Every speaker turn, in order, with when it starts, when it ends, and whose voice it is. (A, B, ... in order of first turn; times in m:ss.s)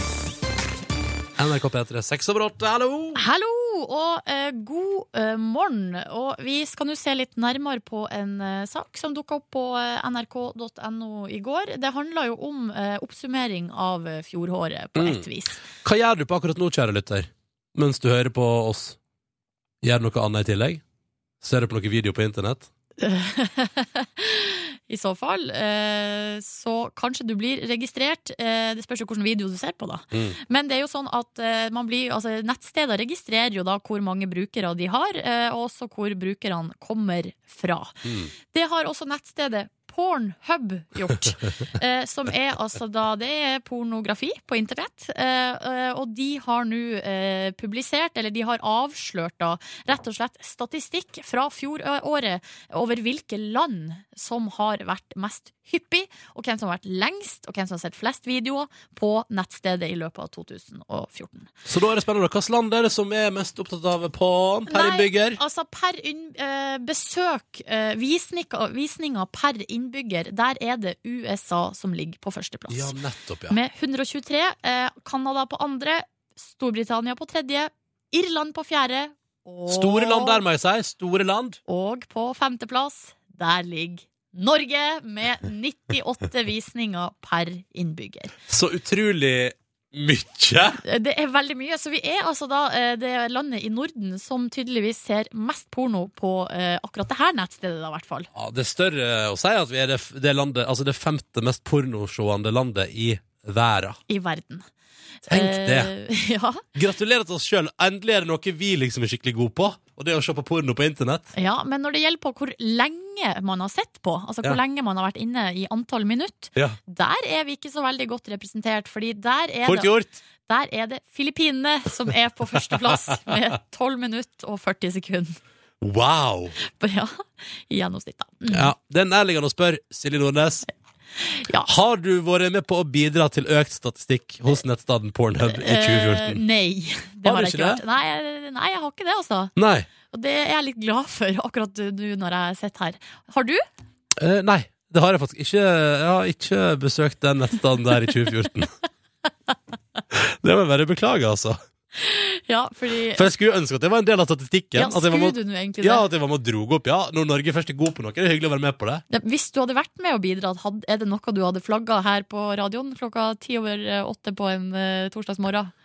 0:01.4-0:03.2 A
0:03.2-0:15.6 B
0:15.0-0:19.0 A
0:19.8-0:20.8 A
0:21.4-0:22.7 A
0:23.0-1:01.5 B
0:30.1-0:30.4 A
0:38.0-0:38.3 A
1:01.6-1:05.4 A
1:04.7-1:12.9 B
1:12.7-1:13.6 A
1:13.5-1:20.4 B
1:19.7-1:21.6 A
1:21.7-1:28.3 B
1:28.5-1:30.8 A
1:30.8-1:38.3 B
1:38.3-1:44.0 A
1:44.1-1:44.6 B
1:45.2-1:46.6 B
1:45.3-1:45.9 A
1:46.7-1:51.3 A
1:51.3-1:59.9 B
1:59.6-2:00.2 A
2:00.5-2:05.4 B
2:05.8-2:06.6 A
2:06.6-2:08.7 B
2:08.5-2:10.6 A
2:11.2-2:11.7 B
2:11.6-2:16.4 A
2:15.5-2:19.5 B
2:17.2-2:17.8 A
2:19.6-2:19.9 A
2:20.1-2:23.6 B
2:24.2-2:28.7 A
2:30.1-2:31.6 A
2:32.0-2:33.3 B
2:33.1-2:39.0 A
2:34.7-2:36.0 B
2:39.1-2:45.7 B